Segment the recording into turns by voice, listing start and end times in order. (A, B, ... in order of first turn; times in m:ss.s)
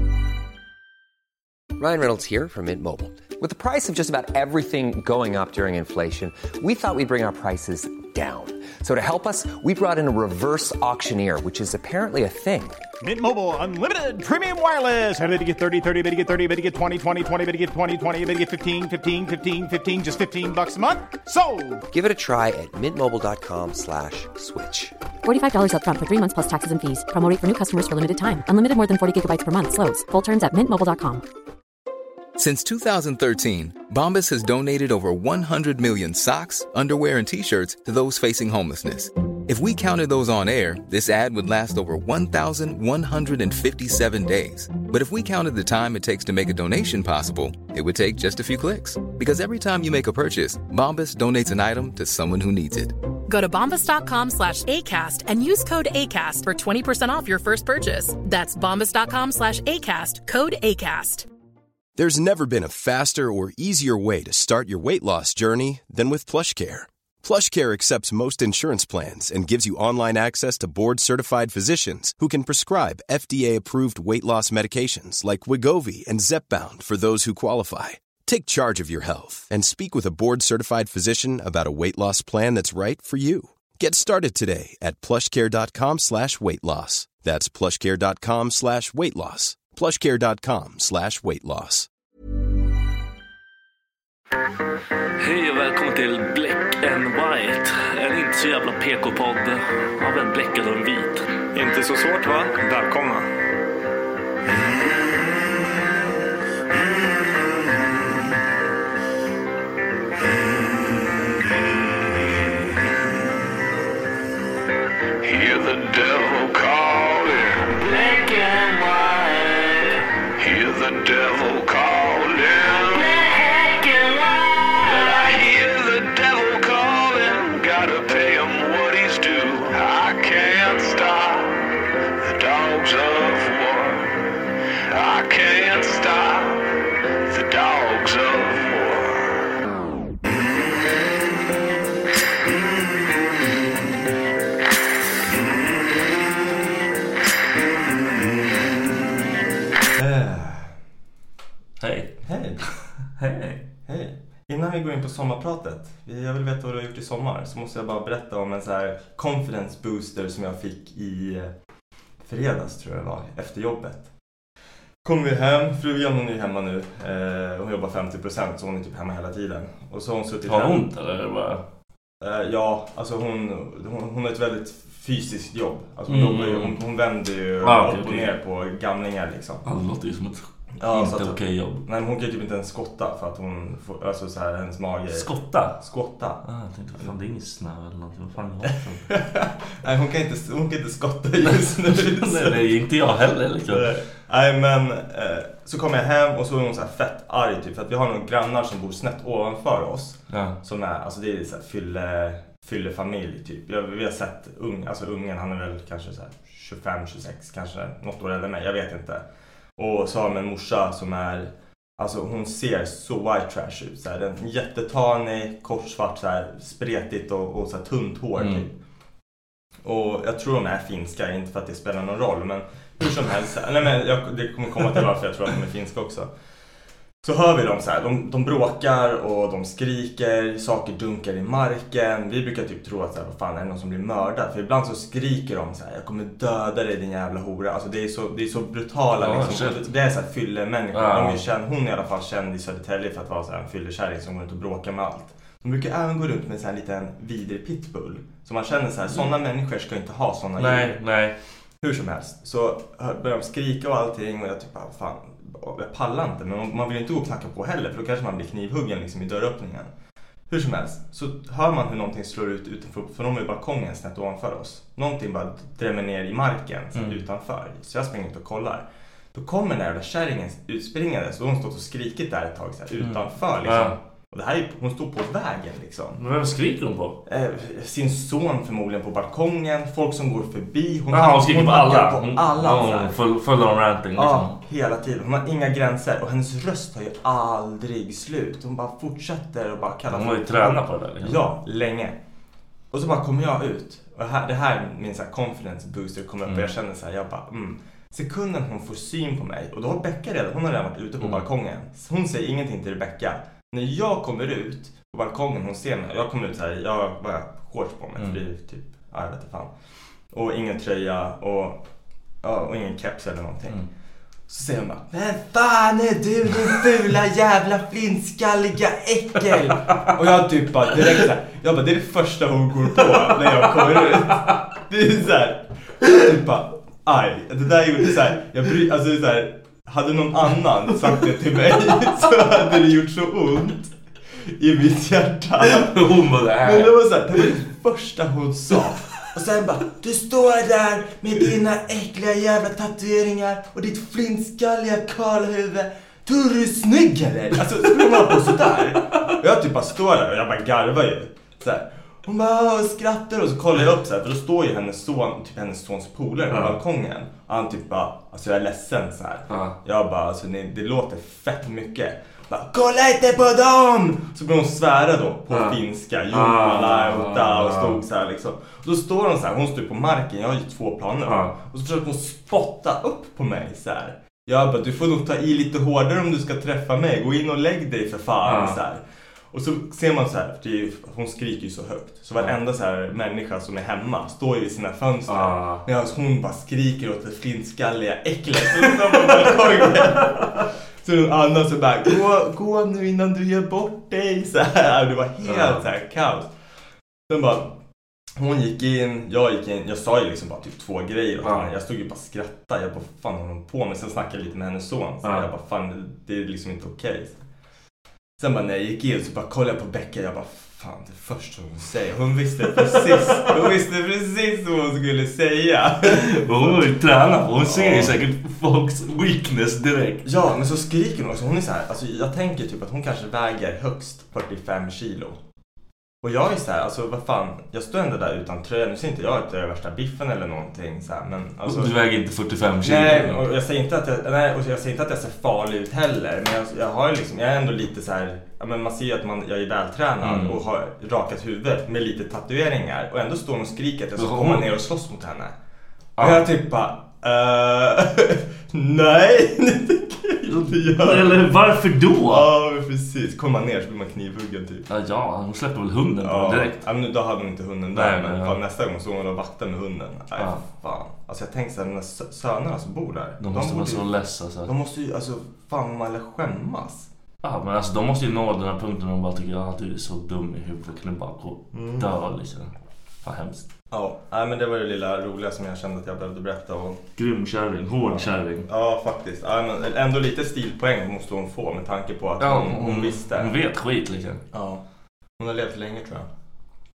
0:01.8-0:12.8 A
0:13.0-0:21.8 B
0:21.9-0:24.9 A
0:25.2-0:31.2 C
0:32.4-0:53.0 D
0:53.3-1:01.3 E
1:02.0-1:31.9 F
1:35.2-1:41.3 G
1:41.5-1:43.3 H
1:52.2-1:52.4 I
1:55.2-2:11.7 I
2:12.2-2:14.2 I
2:14.9-2:19.5 I
2:20.7-2:21.0 I
2:25.3-2:26.1 I
2:30.0-2:30.7 H
2:31.8-2:32.2 G
2:32.2-2:32.6 H
2:33.2-2:33.6 G
2:33.9-2:41.5 H
2:42.2-2:44.1 H
2:45.0-2:50.8 H
2:50.5-2:51.6 G
2:52.2-2:59.6 H
2:56.1-2:56.8 G
2:57.6-2:58.3 G
2:59.6-3:01.8 G
3:00.8-3:06.4 H
3:05.1-3:05.8 G
3:06.4-3:09.1 G
3:09.1-3:29.2 H
3:11.5-3:13.9 G
3:20.3-3:20.6 G
3:29.8-3:38.7 H
3:38.4-3:38.7 G
3:39.8-3:46.3 H
3:47.2-4:11.0 H
3:59.2-3:59.8 G
4:00.9-4:01.4 G
4:10.6-4:11.4 G
4:11.8-4:19.9 H
4:20.5-4:36.2 H
4:33.0-4:34.0 G
4:36.2-4:37.2 G
4:37.3-4:43.2 H
4:41.1-4:44.6 G
4:44.2-4:52.2 H
4:50.1-4:51.4 G
4:52.9-5:09.7 H
5:10.3-5:11.8 H
5:12.4-5:13.8 H
5:14.5-5:33.9 H
5:23.2-5:24.6 G
5:34.4-6:36.5 H
5:35.6-5:36.9 G
5:48.2-5:48.7 G
5:56.5-5:56.8 G
5:59.5-5:59.8 G
6:05.5-6:05.8 G
6:06.3-6:08.0 G
6:11.2-6:11.6 G
6:18.4-6:18.8 G
6:25.3-6:25.8 G
6:28.9-6:30.5 G
6:35.4-6:35.8 G
6:37.3-6:37.7 H
6:38.4-6:47.4 H
6:41.4-6:41.7 G
6:45.2-6:45.5 G
6:48.4-6:56.8 H
6:52.7-6:53.5 G
6:56.0-7:00.3 G
6:57.6-6:58.2 H
7:00.2-7:05.4 H
7:06.2-7:11.9 H
7:11.6-7:13.4 G
7:12.8-7:25.6 H
7:20.2-7:20.6 G
7:24.2-7:24.7 G
7:26.2-7:26.5 G
7:26.2-7:31.6 H
7:30.4-7:32.5 G
7:32.2-7:34.9 H
7:34.9-7:36.8 G
7:36.2-7:44.1 H
7:37.9-7:38.6 G
7:43.4-7:44.7 G
7:44.6-7:47.1 H
7:47.4-7:52.7 G
7:51.7-7:52.1 H
7:53.2-7:53.7 G
7:53.9-7:57.0 H
7:57.2-7:58.7 G
7:58.0-8:03.6 H
8:02.4-8:04.4 G
8:04.5-8:04.8 H
8:05.4-8:06.3 H